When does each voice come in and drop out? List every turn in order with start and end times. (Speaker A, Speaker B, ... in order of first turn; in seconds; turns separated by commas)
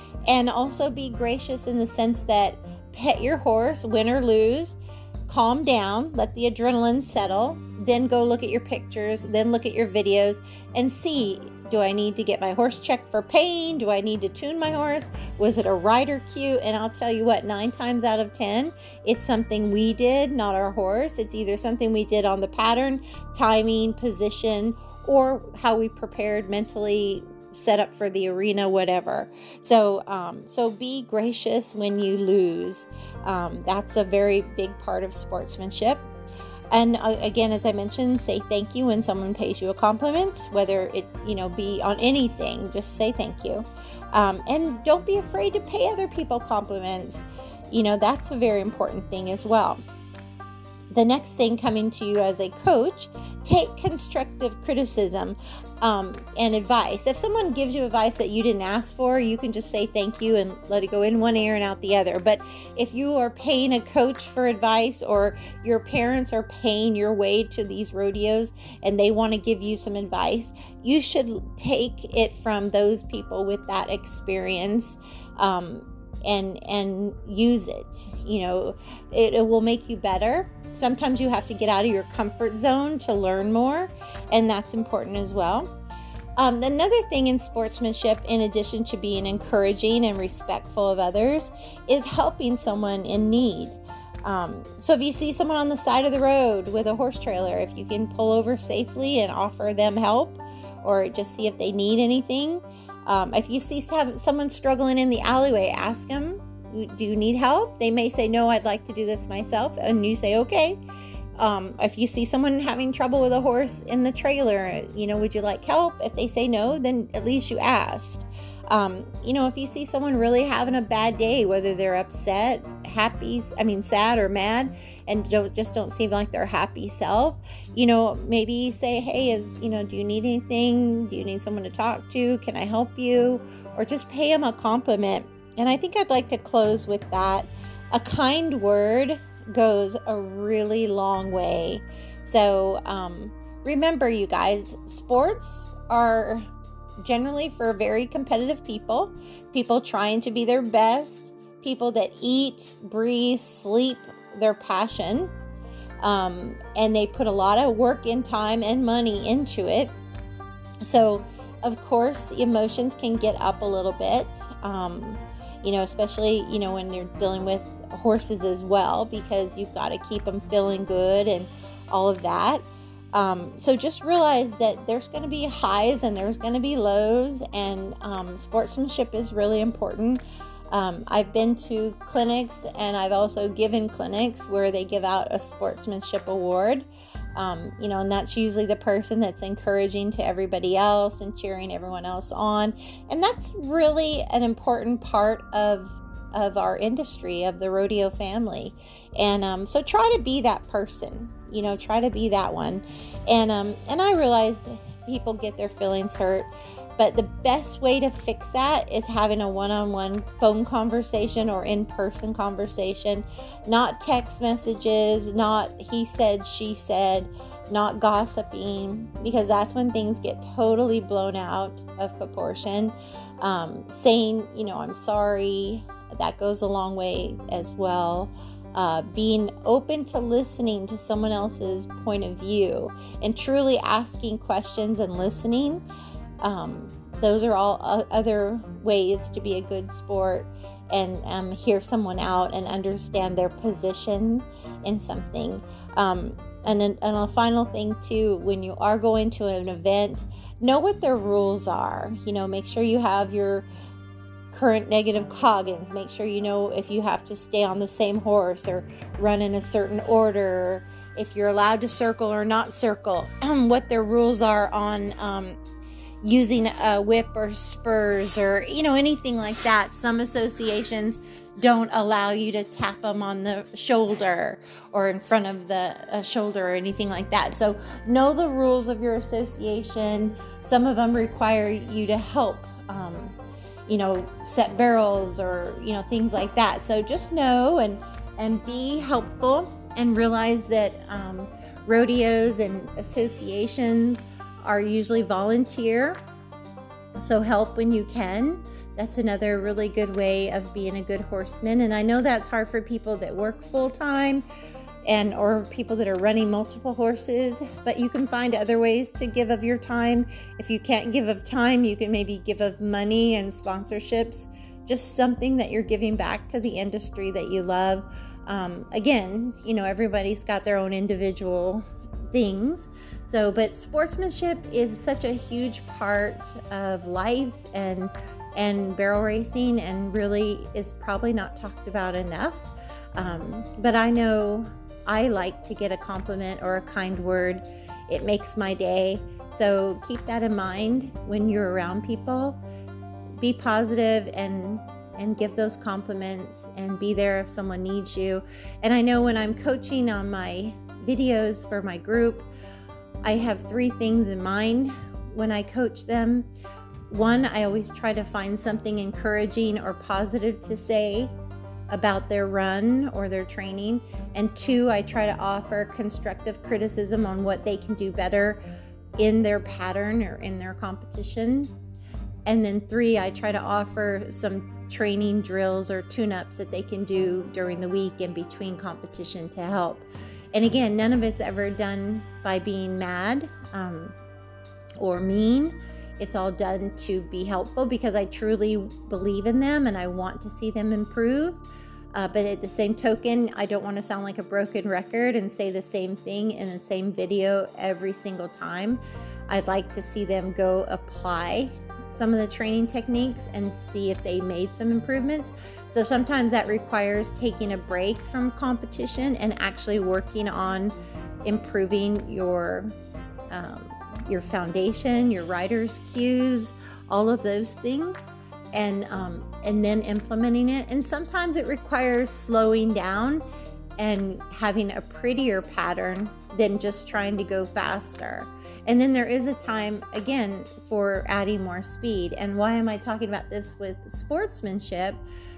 Speaker A: 0.3-36.0, Speaker A: 36.7-49.8, Speaker A: 50.9-85.7, Speaker A: 86.4-110.8, Speaker A: 111.4-146.4, Speaker A: 147.0-155.3, Speaker A: 156.0-159.9, Speaker A: 160.8-235.8, Speaker A: 236.4-253.7, Speaker A: 254.5-265.6, Speaker A: 266.2-296.2, Speaker A: 297.2-304.4, Speaker A: 305.1-342.6, Speaker A: 343.4-352.5, Speaker A: 353.2-356.5, Speaker A: 357.1-361.3, Speaker A: 361.9-368.6, Speaker A: 369.2-371.7, Speaker A: 372.4-384.1, Speaker A: 385.0-391.6, Speaker A: 392.1-413.0, Speaker A: 413.5-423.4, Speaker A: 424.0-435.2